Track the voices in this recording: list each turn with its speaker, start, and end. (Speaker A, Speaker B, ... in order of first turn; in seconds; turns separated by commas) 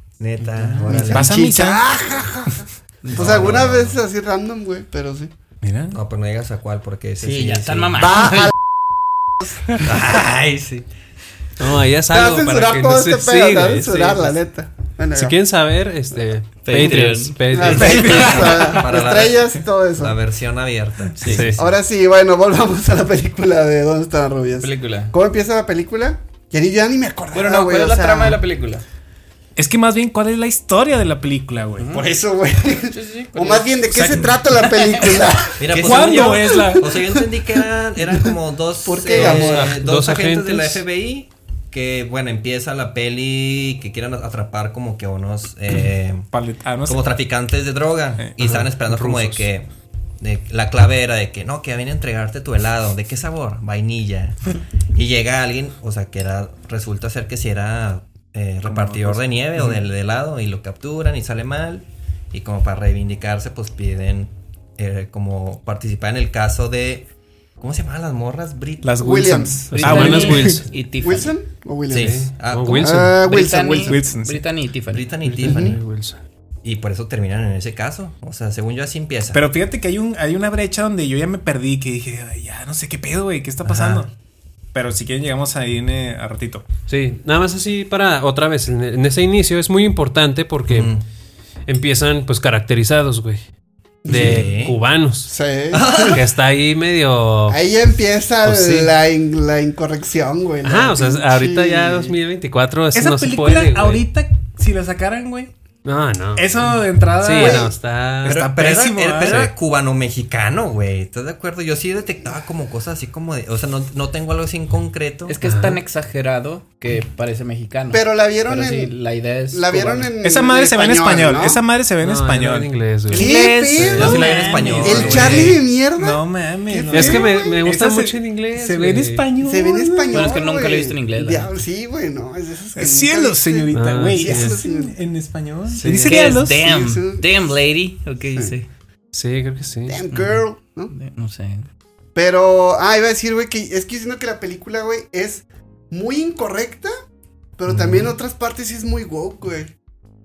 Speaker A: 0.2-1.3, Speaker B: 0.6-1.2, Speaker C: 0.8-5.3, Speaker D: 1.1-1.9, Speaker B: 3.0-3.5, Speaker A: 3.1-4.0, Speaker D: 5.6-6.0, Speaker A: 5.9-8.3, Speaker B: 7.2-8.5, Speaker C: 8.0-8.5, Speaker A: 9.8-10.9, Speaker E: 11.6-14.2, Speaker C: 12.1-15.4, Speaker B: 13.7-14.4, Speaker E: 15.1-18.5, Speaker B: 16.6-17.9, Speaker C: 17.5-20.2, Speaker D: 17.7-18.8, Speaker A: 18.0-21.8, Speaker B: 21.2-21.5, Speaker E: 21.2-21.6, Speaker C: 21.5-28.4, Speaker B: 24.6-25.1, Speaker B: 27.3-28.8, Speaker D: 29.6-32.0, Speaker B: 31.8-32.1, Speaker C: 31.9-37.2, Speaker B: 32.9-36.3, Speaker D: 33.9-34.3, Speaker A: 35.6-46.3, Speaker D: 35.7-37.1, Speaker C: 38.8-39.8, Speaker E: 39.1-40.8, Speaker D: 46.3-47.1, Speaker A: 46.9-49.7, Speaker E: 48.4-49.5, Speaker A: 50.2-67.1, Speaker D: 58.6-59.8, Speaker A: 67.6-68.9, Speaker D: 68.8-70.6, Speaker C: 69.0-70.2, Speaker E: 69.7-70.7, Speaker B: 69.8-71.3, Speaker C: 71.0-74.0, Speaker A: 71.9-73.0, Speaker E: 72.0-73.2, Speaker B: 73.2-75.1, Speaker D: 73.9-74.4, Speaker A: 74.9-75.8, Speaker E: 75.2-76.2, Speaker C: 75.4-75.8, Speaker A: 76.6-79.4, Speaker D: 79.3-84.1, Speaker A: 83.7-84.1, Speaker D: 84.7-86.7, Speaker E: 86.9-90.9, Speaker A: 90.7-91.0, Speaker E: 91.7-93.4, Speaker C: 94.0-94.5, Speaker A: 94.1-94.8, Speaker E: 94.1-95.3, Speaker C: 95.3-96.2, Speaker A: 95.7-96.2, Speaker E: 96.0-97.6, Speaker C: 97.5-102.2, Speaker E: 98.4-98.9, Speaker E: 100.6-104.0, Speaker D: 102.9-105.5, Speaker E: 105.8-108.4, Speaker D: 106.3-107.7, Speaker C: 107.3-107.7, Speaker D: 108.2-109.5, Speaker A: 108.2-115.4, Speaker B: 115.3-120.1, Speaker E: 115.4-115.8, Speaker C: 117.9-119.0, Speaker C: 119.5-121.6, Speaker D: 120.2-122.7, Speaker E: 122.0-125.5, Speaker C: 123.1-127.7, Speaker A: 123.1-125.6, Speaker D: 123.8-130.4, Speaker E: 126.9-129.3, Speaker C: 129.4-135.0, Speaker B: 130.1-131.6, Speaker D: 132.8-136.7, Speaker E: 133.7-134.6, Speaker B: 135.7-138.7, Speaker C: 135.9-137.3, Speaker E: 139.1-140.0, Speaker C: 139.9-140.9, Speaker B: 140.1-141.7, Speaker C: 142.2-146.9, Speaker C: 147.6-149.7, Speaker A: 147.7-148.1